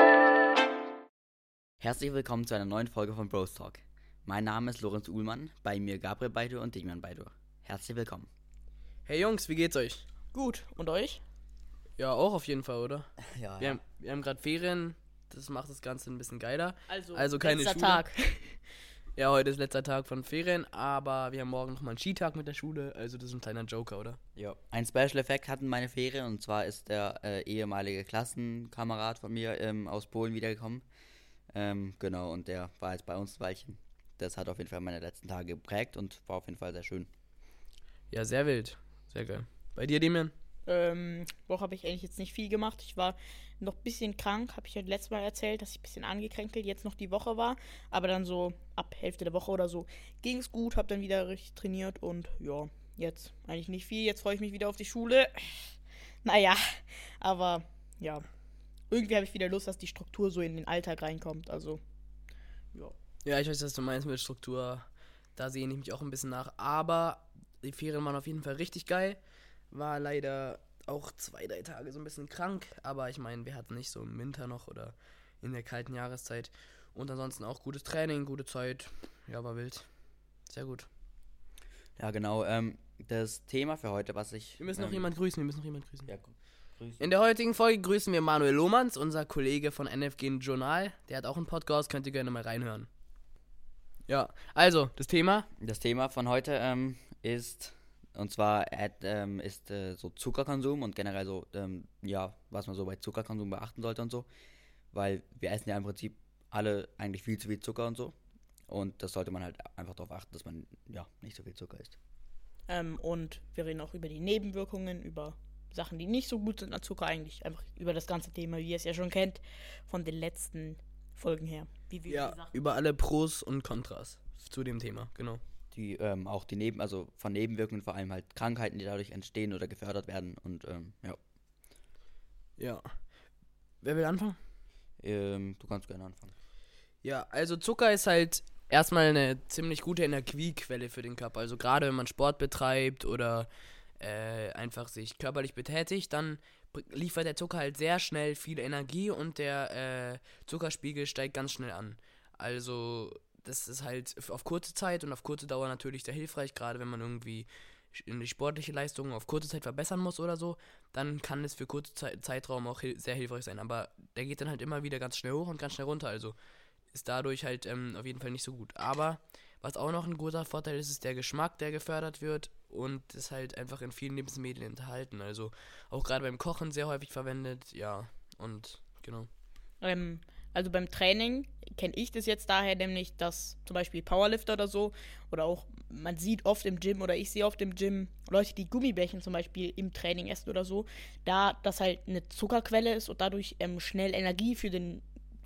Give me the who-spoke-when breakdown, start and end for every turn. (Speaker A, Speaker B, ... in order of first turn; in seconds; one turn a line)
Speaker A: 1.8-8.3
Speaker B: 9.1-10.0
Speaker C: 10.3-11.2
Speaker B: 12.0-18.0
Speaker A: 13.2-13.8
Speaker C: 16.9-18.6
Speaker B: 19.1-24.2
Speaker A: 24.4-30.8
Speaker A: 31.5-37.1
Speaker B: 38.1-40.3
Speaker C: 40.7-58.2
Speaker C: 58.9-61.8
Speaker B: 63.2-69.2
Speaker B: 69.7-79.9
Speaker B: 80.5-80.9
Speaker A: 82.0-85.1
Speaker B: 84.6-86.1
Speaker A: 86.1-87.0
Speaker B: 87.0-92.9
Speaker B: 94.1-95.5
Speaker A: 95.6-104.3
Speaker A: 104.9-108.1
Speaker A: 108.7-112.0
Speaker C: 112.7-122.5
Speaker B: 122.1-125.4
Speaker A: 125.7-131.2
Speaker B: 132.6-133.0
Speaker B: 133.8-134.4
Speaker A: 135.0-136.3
Speaker B: 137.0-143.5
Speaker B: 144.0-166.3
Speaker B: 166.9-179.3
Speaker C: 179.8-195.0